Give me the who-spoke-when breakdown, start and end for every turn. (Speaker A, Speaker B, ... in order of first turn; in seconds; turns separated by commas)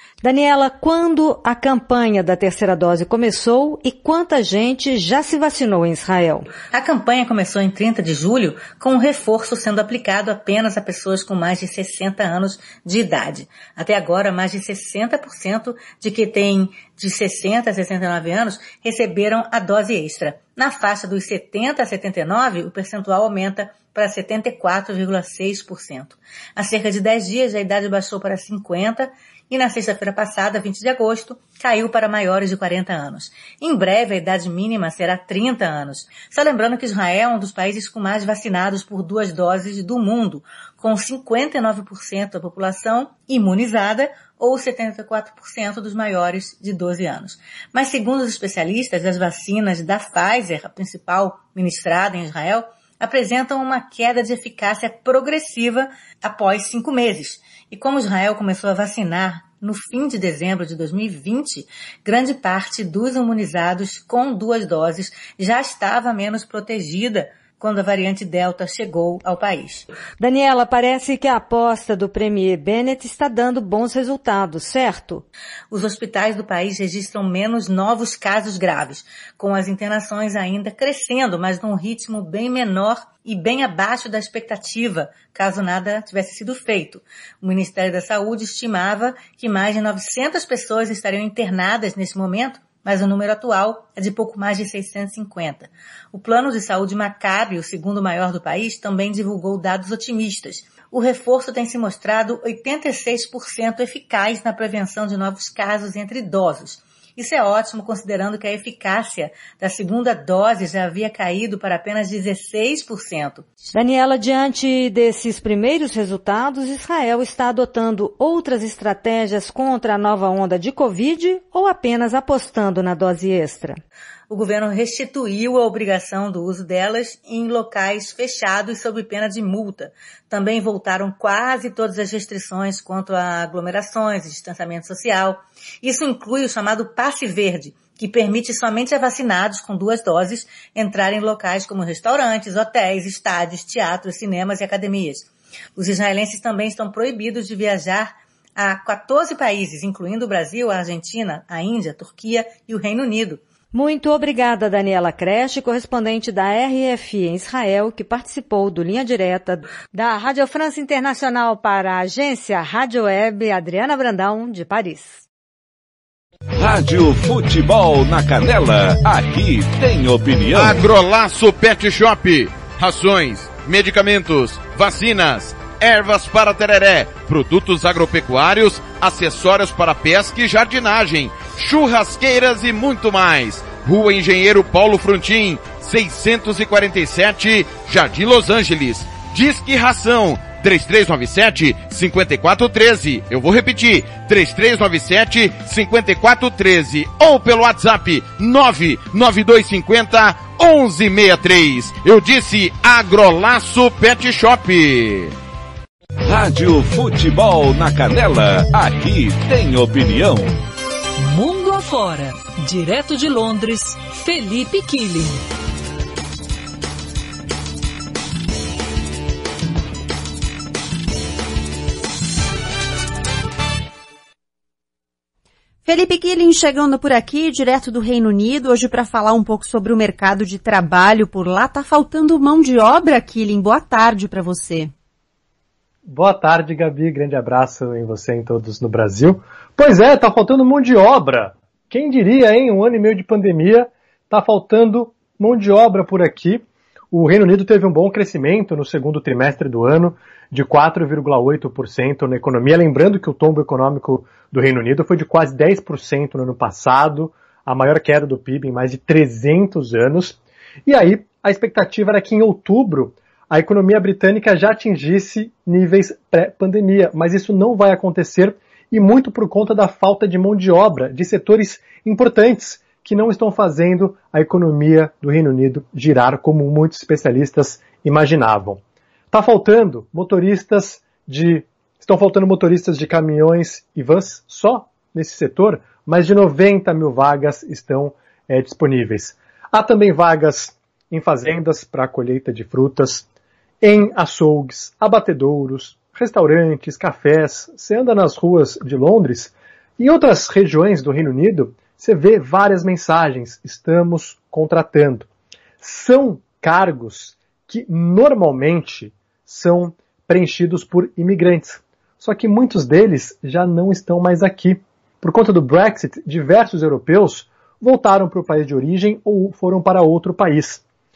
Speaker A: 0.2-6.5, Speaker B: 6.7-69.8, Speaker A: 70.2-75.2, Speaker B: 75.7-113.4, Speaker A: 113.7-123.8, Speaker B: 124.3-153.4, Speaker A: 153.7-165.2, Speaker C: 166.6-170.8, Speaker D: 170.5-205.3, Speaker C: 206.2-210.6, Speaker E: 211.4-212.1, Speaker E: 212.7-215.2, Speaker F: 225.8-234.9, Speaker G: 236.1-278.8, Speaker G: 279.3-293.2, Speaker G: 293.8-305.3, Speaker G: 305.8-320.8